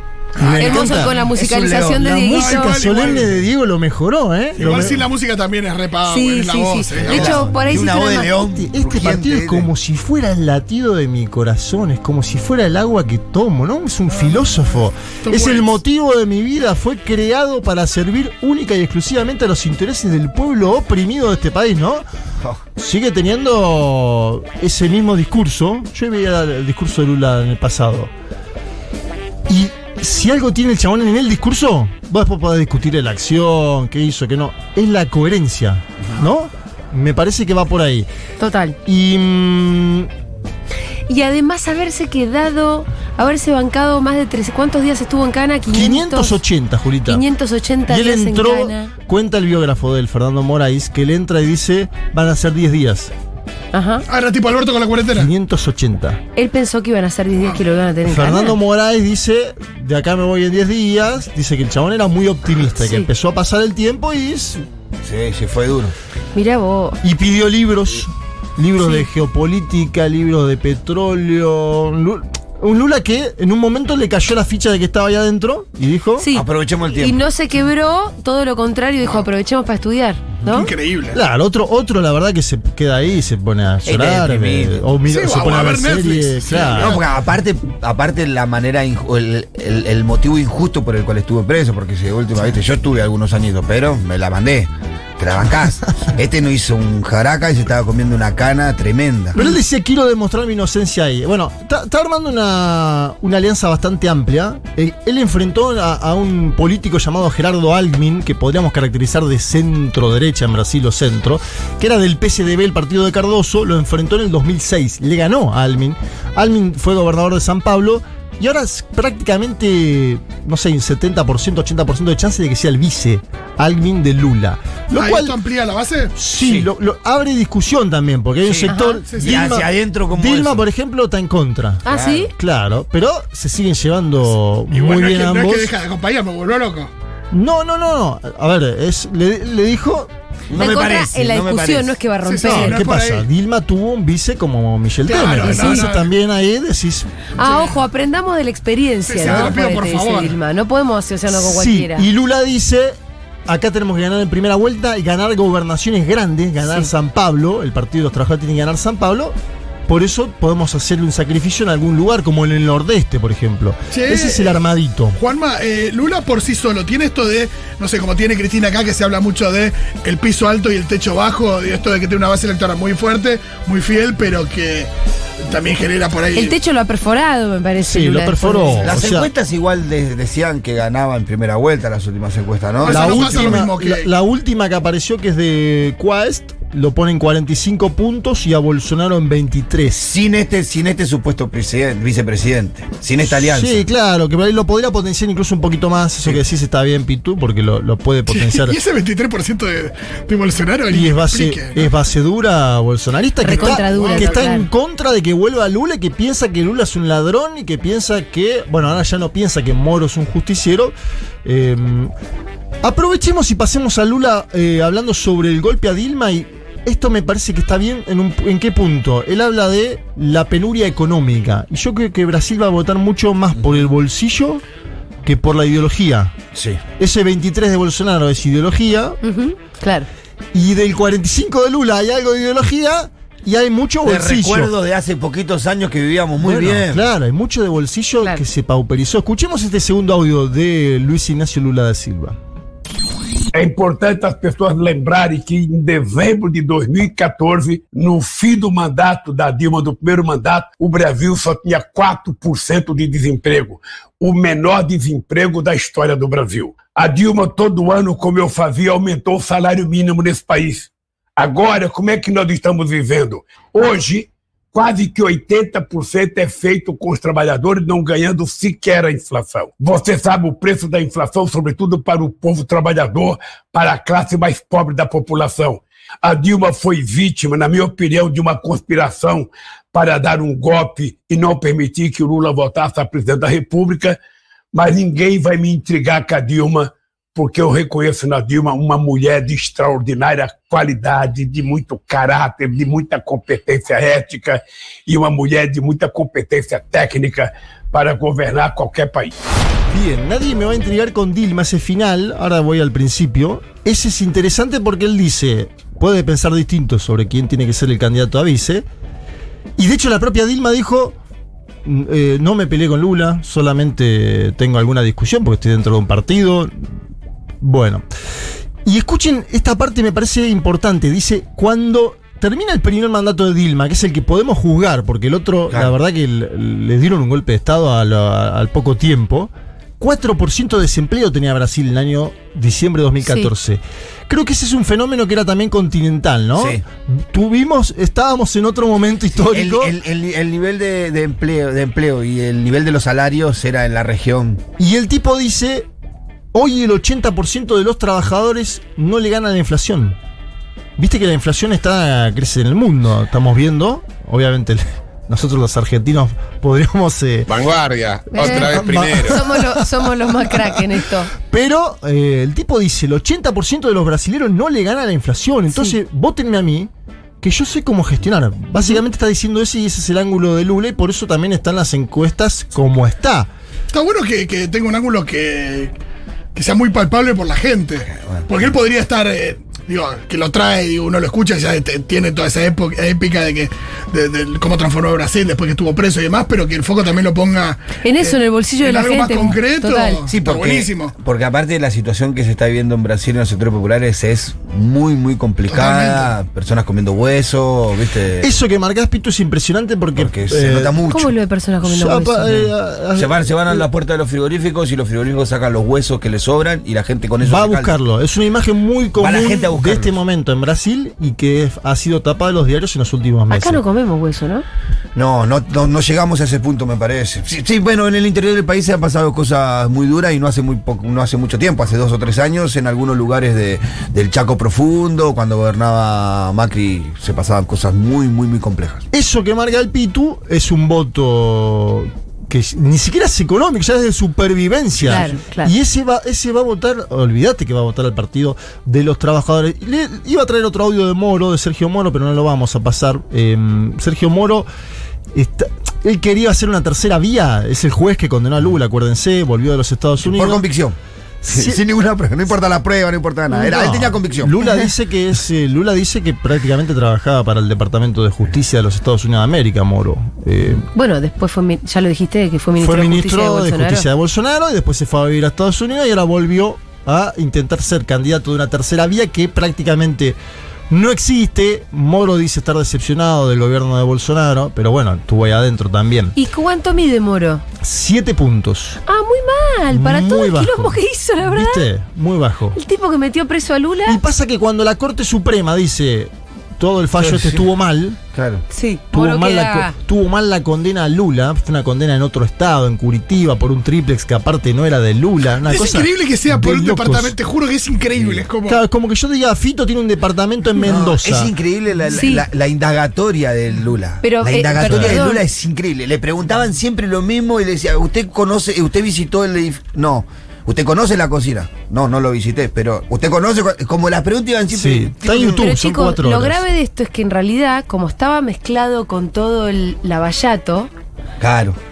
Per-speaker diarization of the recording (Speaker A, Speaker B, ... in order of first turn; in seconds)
Speaker A: 0.4-1.2, 2.0-5.1, 8.4-22.1, 22.8-28.1, 29.5-38.1, 38.9-40.1, 45.7-47.2, 47.9-53.1, 55.1-56.2, 58.0-64.6, 67.0-76.3, 81.1-87.0, 99.3-125.4, 126.2-135.7, 137.3-140.1, 142.4-147.1, 151.3-159.4, 159.9-165.2, 177.8-179.3, 182.8-190.0, 193.2-198.8, 200.9-212.1, 212.8-224.6, 225.2-226.4, 227.0-229.2, 230.5-234.7, 236.4-242.4, 299.9-308.9, 309.8-311.2, 311.8-316.9, 317.6-318.1, 318.9-340.0, 344.8-345.9, 346.5-350.2, 351.0-357.5, 358.4-366.9, 367.4-373.5, 398.4-401.0, 401.8-403.9, 407.4-413.8, 429.1-444.7, 445.3-450.6, 451.4-451.8, 453.5-460.9, 462.8-470.4, 470.9-476.4, 477.8-479.0, 479.9-482.8, 484.1-488.2, 489.1-497.4, 498.6-501.5, 504.9-505.2, 514.7-516.6
Speaker B: 0.4-2.0, 7.0-9.7, 65.0-65.9, 76.3-77.2, 83.8-84.8, 86.7-99.4, 126.4-126.7, 128.4-130.7, 131.9-132.3, 140.5-142.0, 149.2-149.5, 178.9-183.7, 189.9-193.8, 223.6-223.9, 226.5-226.8, 234.0-237.1, 336.6-336.8, 339.4-344.6, 390.3-398.5, 400.2-401.3, 403.1-407.9, 409.2-410.1, 415.1-429.1, 450.2-451.0, 451.5-454.9, 487.2-487.6, 488.3-488.6, 498.2-498.4, 500.8-515.7, 521.4-521.8
Speaker C: 0.4-0.9, 2.2-3.4, 4.5-7.7, 14.1-15.8, 54.1-55.3, 80.5-81.2, 85.0-87.1, 125.0-126.2, 129.1-129.4, 134.7-136.9, 142.2-143.3, 145.0-146.1, 147.4-147.8, 149.1-150.4, 163.9-164.6, 165.2-174.9, 175.5-176.6, 182.8-184.1, 198.3-201.9, 203.5-204.4, 373.9-375.9, 376.6-391.1, 395.7-396.3, 495.6-498.8
Speaker D: 0.6-3.0, 6.1-8.3, 38.4-38.8, 41.1-46.4, 47.1-48.9, 53.7-54.0, 56.4-58.6, 62.8-63.1, 66.3-67.0, 68.8-69.0, 76.2-80.7, 128.7-129.0, 131.8-132.3, 140.6-142.8, 145.5-145.9, 147.4-152.1, 156.6-156.9, 176.3-178.9, 203.4-204.7, 229.2-230.1, 333.2-333.5, 358.3-361.3, 388.0-390.2, 401.1-402.7, 413.5-414.6, 435.0-435.7, 460.9-464.1, 476.4-477.6, 479.1-481.9, 482.7-484.2, 488.7-489.9, 502.1-502.5, 504.2-505.4, 515.4-520.9
Speaker E: 243.5-284.2, 284.7-299.3
Speaker F: 357.5-359.4